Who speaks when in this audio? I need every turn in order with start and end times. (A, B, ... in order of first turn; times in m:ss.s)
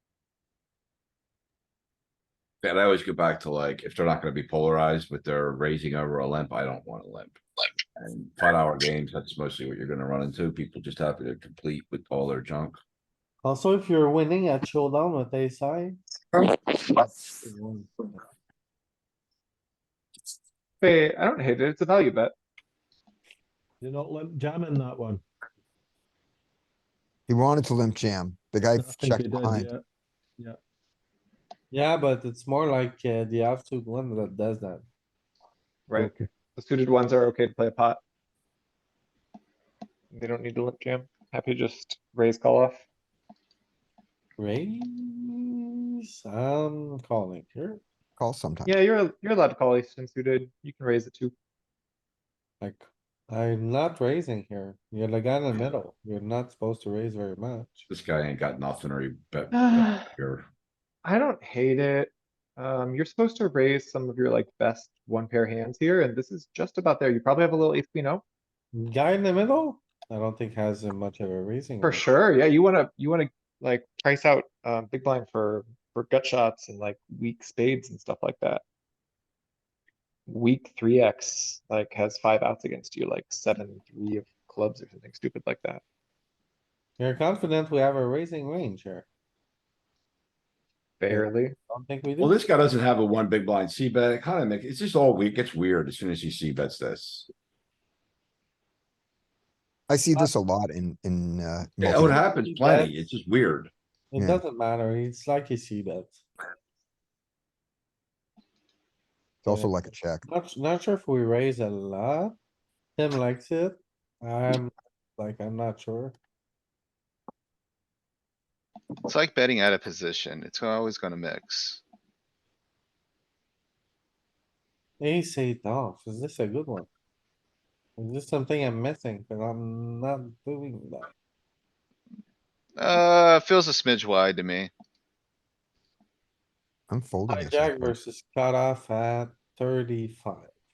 0:02.6-0:12.8 A
0:13.4-0:16.0 B
0:17.4-0:18.2 B
0:20.8-0:22.3 C
0:23.8-0:25.2 D
0:27.3-0:29.7 E
0:28.8-0:29.8 D
0:31.7-0:34.8 B
0:35.9-0:38.0 C
0:36.0-0:36.2 D
0:40.1-0:42.8 C
0:44.4-0:47.8 B
0:48.2-0:48.7 E
0:48.6-0:51.3 C
0:52.6-0:57.8 B
0:57.9-1:00.5 A
0:59.5-1:00.1 C
1:01.0-1:08.2 C
1:08.7-1:12.0 B
1:11.8-1:18.6 C
1:20.3-1:25.8 C
1:27.0-1:29.0 B
1:31.0-1:31.5 C
1:31.1-1:32.3 B
1:32.2-1:37.3 A
1:39.9-1:42.2 E
1:41.8-1:43.7 A
1:42.3-1:43.1 B
1:44.1-1:46.2 B
1:44.2-1:44.4 E
1:49.4-1:50.2 E
1:49.4-1:52.3 B
1:53.0-1:56.2 B
1:59.0-2:01.8 F
2:05.0-2:06.9 B
2:08.0-2:11.1 B
2:12.8-2:14.7 F
2:16.9-2:17.9 E
2:17.3-2:20.5 B